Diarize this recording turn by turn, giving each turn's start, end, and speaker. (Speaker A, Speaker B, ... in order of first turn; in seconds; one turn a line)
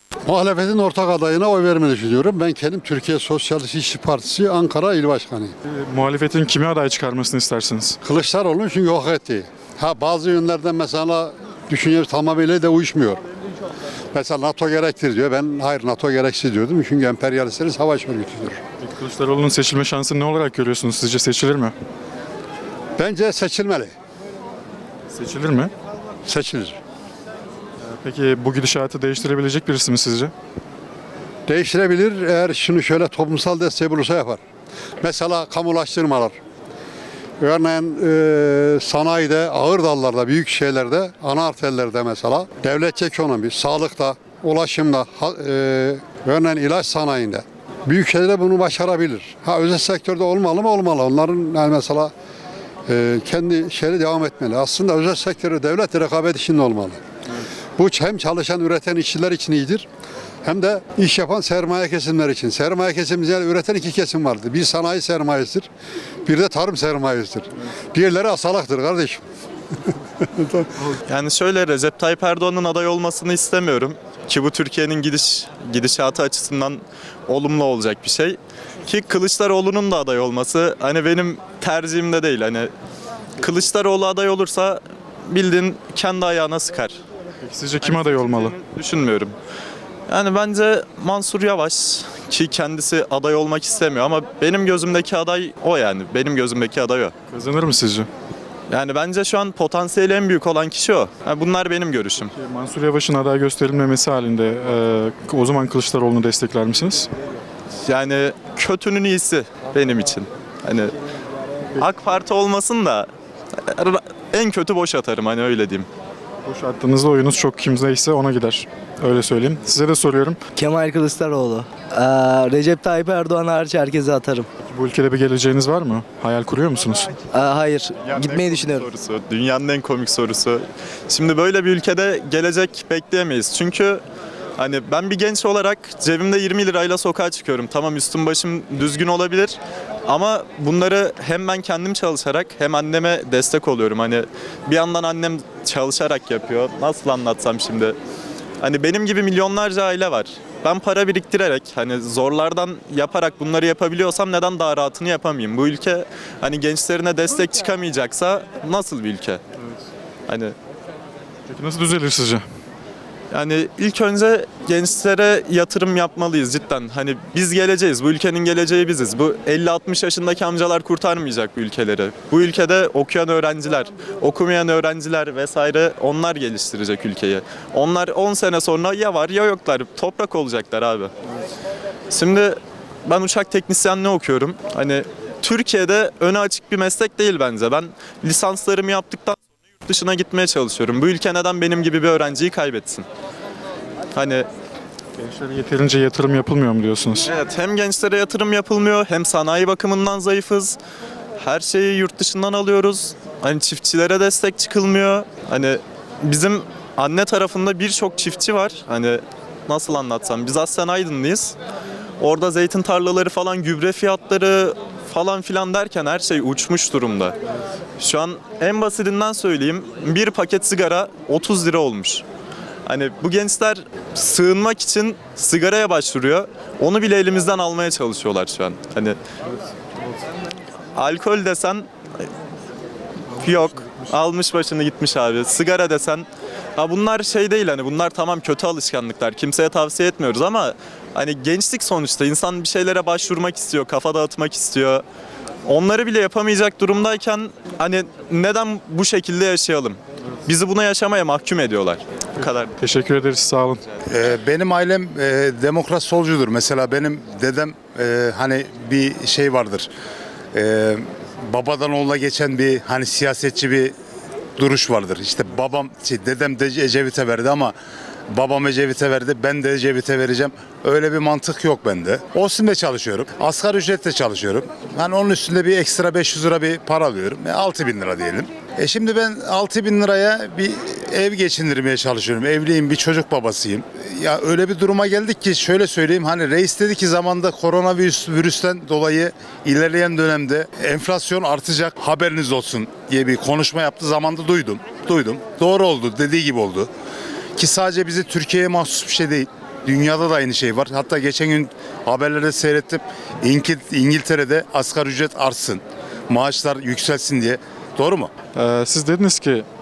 Speaker A: 0.2-5.5
Speaker B: 5.7-8.0
Speaker A: 8.0-13.2
Speaker A: 14.1-18.6
Speaker B: 18.8-21.8
Speaker A: 23.0-23.9
Speaker B: 25.1-25.7
Speaker A: 26.3-26.8
Speaker B: 27.8-30.3
Speaker A: 31.5-34.4
Speaker A: 35.0-36.4
Speaker A: 37.4-52.1
Speaker A: 52.9-57.0
Speaker A: 57.8-59.9
Speaker A: 60.4-65.7
Speaker A: 66.3-69.2
Speaker A: 70.2-70.7
Speaker C: 71.1-82.7
Speaker C: 83.4-87.0
Speaker B: 87.4-88.6
Speaker C: 87.8-89.3
Speaker C: 90.1-97.1
Speaker B: 97.3-98.1
Speaker C: 98.7-102.3
Speaker B: 102.3-107.1
Speaker C: 107.8-111.0
Speaker C: 111.7-113.1
Speaker C: 113.7-115.9
Speaker B: 116.4-120.4
Speaker D: 120.5-124.5
Speaker B: 124.6-127.2
Speaker D: 127.3-128.9
Speaker C: 128.0-134.0
Speaker C: 134.6-148.0
Speaker C: 148.6-159.4
Speaker C: 160.3-160.6
Speaker B: 161.5-162.4
Speaker C: 163.3-181.1
Speaker C: 182.1-193.1
Speaker C: 194.1-194.5
Speaker B: 195.2-197.3
Speaker C: 197.2-200.8
Speaker C: 201.4-211.6
Speaker C: 212.2-217.4
Speaker C: 218.0-222.2
Speaker C: 222.9-229.2
Speaker C: 230.9-231.9
Speaker B: 233.3-234.0
Speaker C: 233.3-245.0
Speaker C: 245.7-252.7
Speaker B: 252.4-253.8
Speaker E: 254.1-259.9
Speaker E: 260.5-263.9
Speaker E: 264.6-267.8
Speaker E: 268.3-296.9
Speaker E: 297.6-308.3
Speaker B: 308.5-309.7